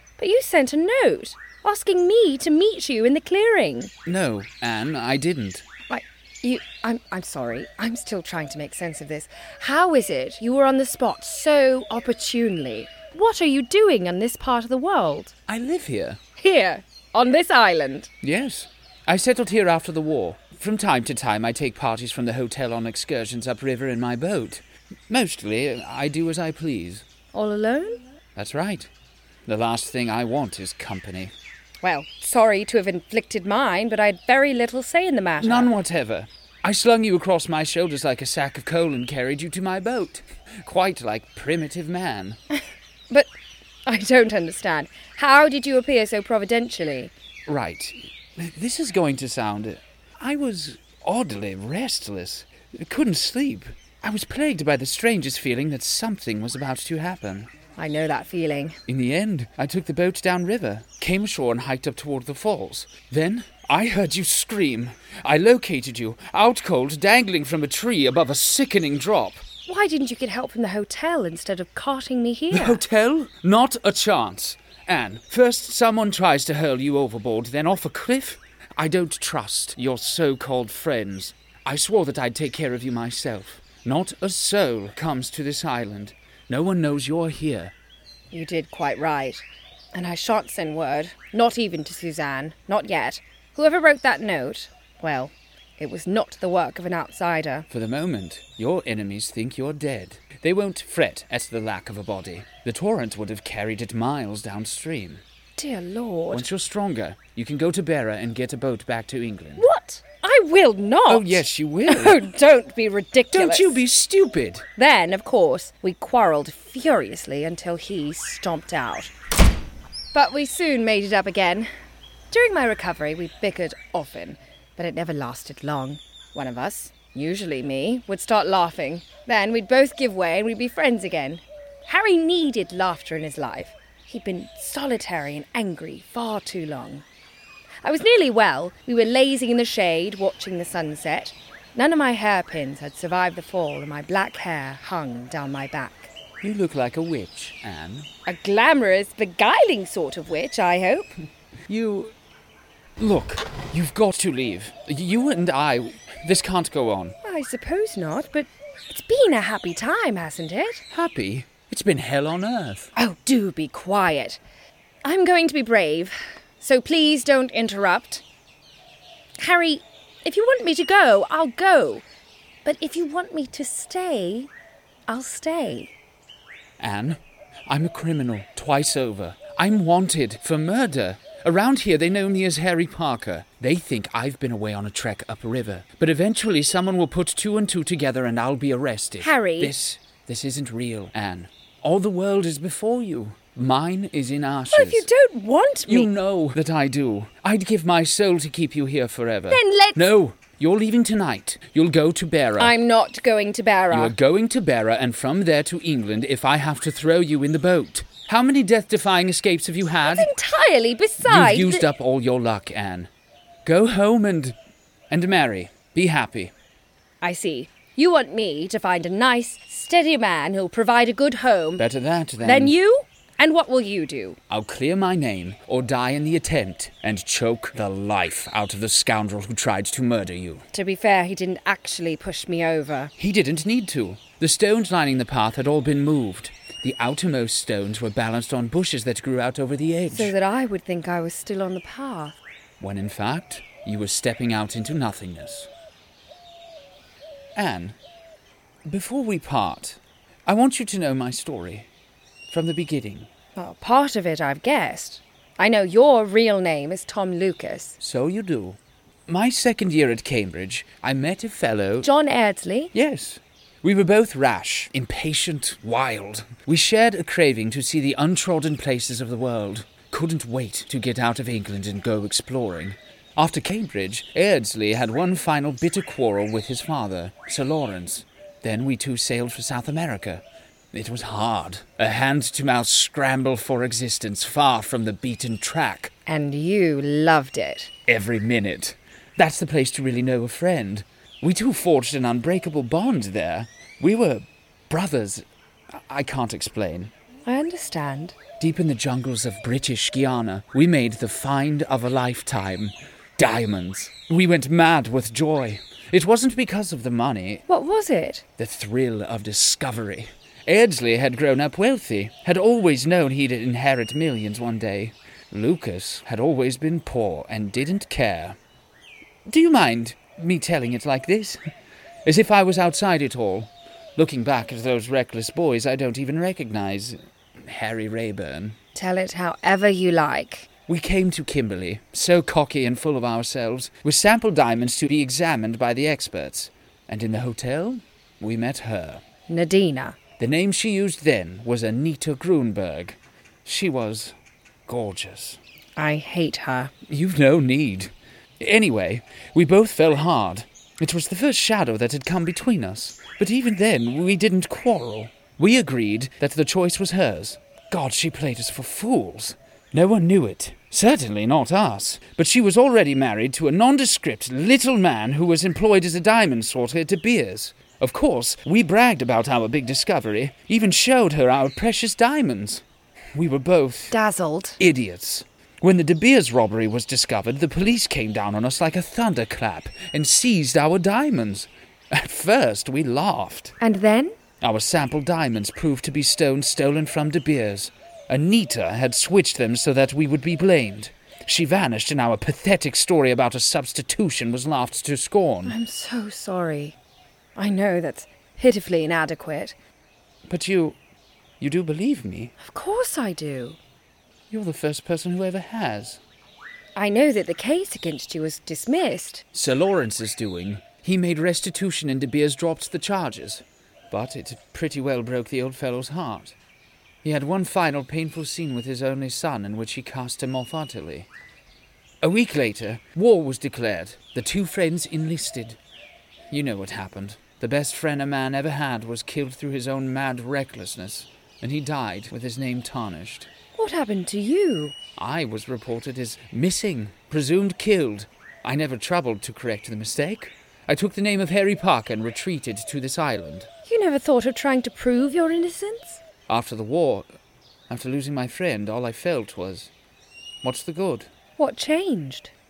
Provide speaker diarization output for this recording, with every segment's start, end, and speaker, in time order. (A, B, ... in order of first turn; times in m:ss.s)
0:00.2-0:03.9 A
0:04.1-0:05.6 B
0:05.9-0:15.3 A
0:15.5-0:16.2 B
0:16.4-0:18.1 A
0:18.2-0:27.0 B
0:27.3-0:28.0 A
0:28.4-0:28.9 B
0:29.5-0:31.3 B
0:31.8-0:35.7 A
0:35.4-0:42.4 B
0:43.9-0:47.1 A
0:47.5-0:57.5 B
0:57.8-0:58.8 A
0:58.9-1:09.4 B
1:09.6-1:12.8 A
1:12.5-1:27.7 B
1:28.3-1:37.7 A
1:37.7-1:45.2 B
1:45.6-1:46.5 A
1:46.3-1:49.7 B
1:49.6-1:53.8 A
1:51.1-1:52.3 B
1:53.3-1:54.6 B
1:54.8-1:59.1 A
2:00.1-2:01.7 A
2:02.3-2:17.0 A
2:17.8-2:26.1 A
2:26.4-2:28.1 B
2:28.3-2:31.2 A
2:31.7-2:32.1 B
2:33.0-2:37.2 B
2:37.2-2:40.8 A
2:40.9-2:42.9 B
2:43.0-2:44.4 A
2:45.0-2:48.2 A
2:49.4-2:52.0 A
2:52.6-2:54.5 A
2:55.1-2:55.9 A
2:56.8-3:15.1 B
3:09.2-3:09.7 A
3:14.7-3:16.1 A
3:15.9-3:22.8 B
3:19.5-3:20.1 A
3:22.6-3:24.2 A
3:23.9-3:30.3 B
3:30.0-3:31.9 A
3:31.2-3:33.1 B
3:33.6-3:34.6 B
3:35.1-3:36.5 B
3:37.2-3:41.9 A
3:41.8-3:42.8 B
3:42.4-3:44.4 A
3:44.5-3:50.6 B
3:50.7-3:53.1 A
3:53.2-4:00.3 B
4:00.1-4:02.4 A
4:02.8-4:05.7 B
4:07.6-4:08.0 B
4:08.9-4:11.9 B
4:12.5-4:13.3 B
4:13.6-4:18.0 A
4:18.0-4:22.1 B
4:22.0-4:22.9 A
4:22.9-4:46.1 B
4:46.3-4:47.9 A
4:48.1-4:55.4 B
4:56.1-4:57.1 B
4:57.5-4:58.4 A
4:58.6-5:07.6 B
5:07.7-5:08.4 A
5:08.6-5:18.6 B
5:19.5-5:21.6 B
5:22.2-5:28.8 B
5:29.0-5:30.7 A
5:30.9-5:39.2 B
5:39.5-5:40.2 A
5:40.4-5:44.3 B
5:44.9-5:45.6 B
5:46.0-5:46.9 A
5:47.1-6:12.8 B
6:13.4-6:14.1 B
6:14.1-6:14.8 A
6:14.8-6:23.8 B
6:23.8-6:24.4 A
6:24.6-6:35.8 B
6:35.6-6:37.0 A
6:37.6-6:39.8 A
6:40.5-6:41.0 B
6:41.6-6:42.5 B
6:42.6-6:43.8 A
6:44.5-6:46.2 B
6:47.0-6:49.4 A
6:49.5-6:56.6 B
6:57.2-7:01.3 B
7:02.2-7:05.8 B
7:06.5-7:13.5 B
7:13.8-7:15.0 A
7:15.2-7:23.7 B
7:23.9-7:26.2 A
7:26.5-7:27.3 B
7:27.9-7:29.9 B
7:30.6-7:31.3 B
7:31.6-7:32.5 A